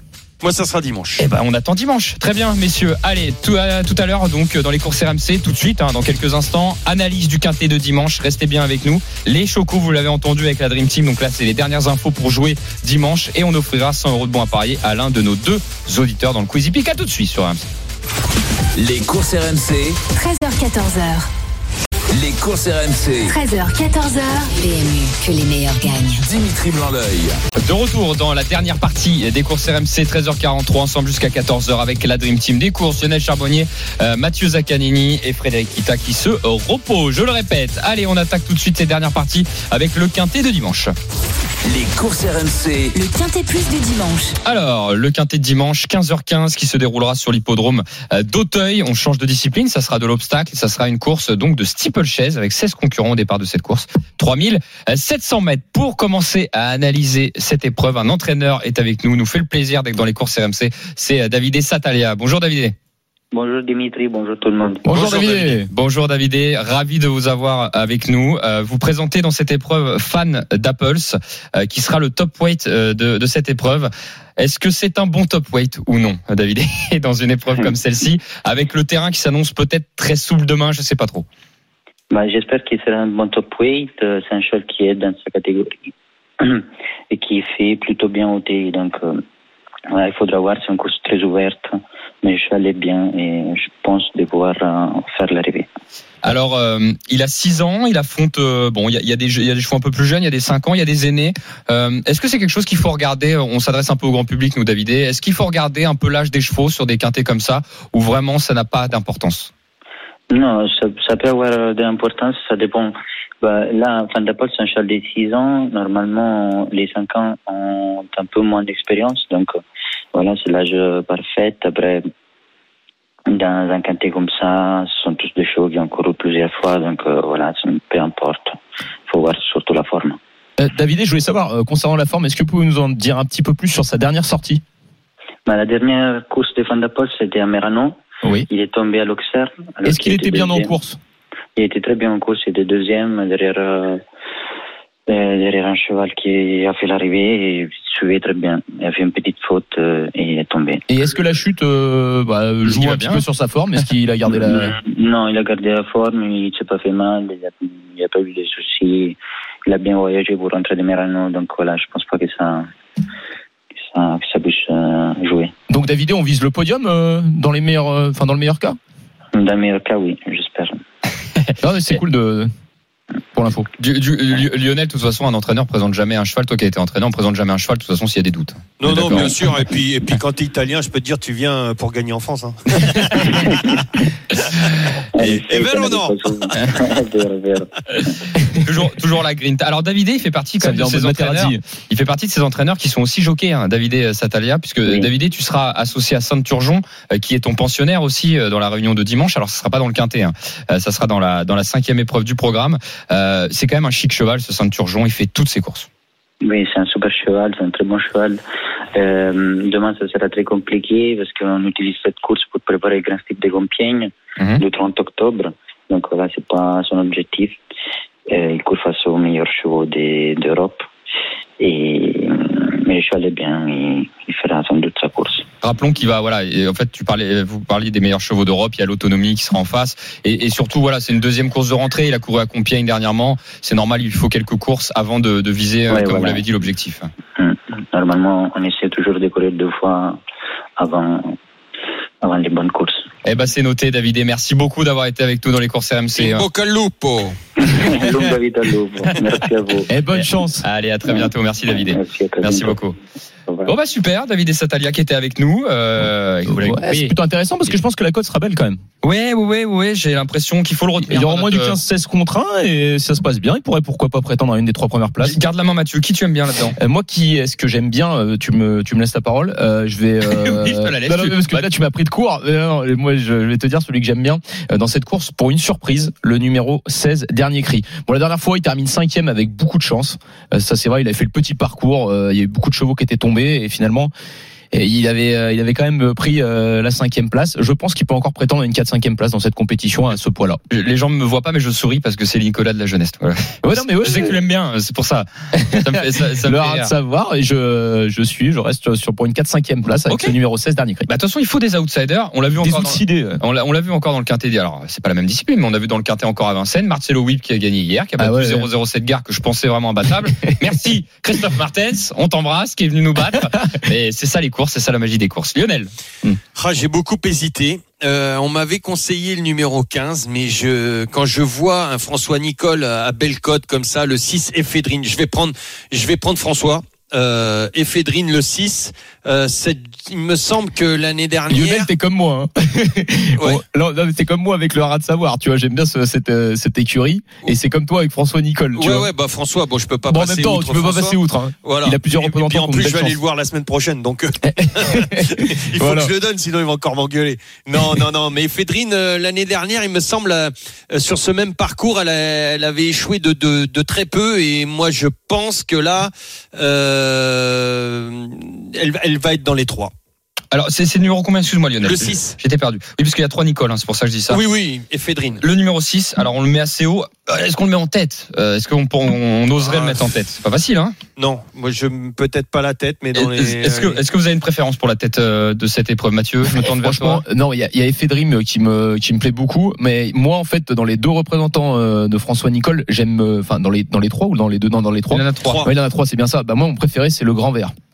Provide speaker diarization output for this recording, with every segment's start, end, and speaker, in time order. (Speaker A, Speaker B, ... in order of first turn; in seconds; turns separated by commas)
Speaker A: 0.4-1.2, Speaker B: 1.2-17.7, Speaker C: 18.8-20.0, Speaker D: 20.1-21.3, Speaker C: 22.1-23.4, Speaker D: 23.2-26.2, Speaker C: 26.2-27.4, Speaker B: 27.6-40.9, Speaker C: 41.6-43.0, Speaker D: 42.9-44.3, Speaker B: 44.4-62.7, Speaker E: 63.3-64.8, Speaker F: 64.8-65.7, Speaker A: 64.9-65.6, Speaker B: 65.7-81.2, Speaker E: 82.1-89.2, Speaker E: 89.9-95.7, Speaker B: 96.2-109.5, Speaker E: 110.3-119.6, Speaker E: 120.1-122.1, Speaker E: 123.3-128.6, Speaker E: 129.1-130.2, Speaker F: 130.6-134.6, Speaker E: 135.4-140.7, Speaker F: 139.8-141.0, Speaker E: 141.6-144.0, Speaker E: 145.1-150.8, Speaker F: 150.9-154.8, Speaker B: 152.7-153.2, Speaker E: 154.3-162.7, Speaker E: 163.9-165.5, Speaker F: 165.7-168.8, Speaker E: 169.3-170.8, Speaker F: 171.6-172.5, Speaker F: 173.3-173.7, Speaker B: 173.8-179.3, Speaker A: 178.8-183.7, Speaker E: 183.3-183.7, Speaker E: 185.1-188.1, Speaker A: 185.2-186.9, Speaker B: 188.6-205.9, Speaker F: 190.6-191.6, Speaker E: 206.4-208.4, Speaker E: 208.9-217.6, Speaker B: 214.4-214.6, Speaker E: 218.3-220.9, Speaker E: 221.6-225.4, Speaker B: 225.6-237.1, Speaker E: 235.9-236.4, Speaker E: 237.4-240.2, Speaker E: 240.8-241.4, Speaker E: 242.2-243.1, Speaker B: 243.2-246.4, Speaker A: 246.2-247.4, Speaker E: 247.6-249.9, Speaker F: 249.9-250.6, Speaker B: 250.1-252.9, Speaker E: 251.0-252.8, Speaker B: 253.7-257.1, Speaker F: 256.5-258.8, Speaker B: 259.0-261.8, Speaker F: 261.0-265.4, Speaker B: 265.2-266.8, Speaker F: 266.8-284.1, Speaker B: 270.3-271.7, Speaker F: 284.7-290.6, Speaker B: 290.7-296.9, Speaker F: 293.6-294.3, Speaker F: 295.6-301.1, Speaker B: 300.1-300.3, Speaker B: 301.1-316.4, Speaker F: 302.6-303.4, Speaker F: 308.2-308.7, Speaker A: 316.5-331.9, Speaker F: 331.5-339.1, Speaker A: 333.4-333.6, Speaker A: 338.8-359.9, Speaker F: 340.1-343.2, Speaker F: 344.4-346.1, Speaker B: 360.5-364.4, Speaker A: 361.8-362.4, Speaker A: 364.3-365.4, Speaker B: 365.4-370.9, Speaker A: 369.6-370.1, Speaker A: 371.2-374.0, Speaker B: 373.1-377.2, Speaker F: 376.5-387.7, Speaker B: 385.1-385.7, Speaker A: 385.4-385.7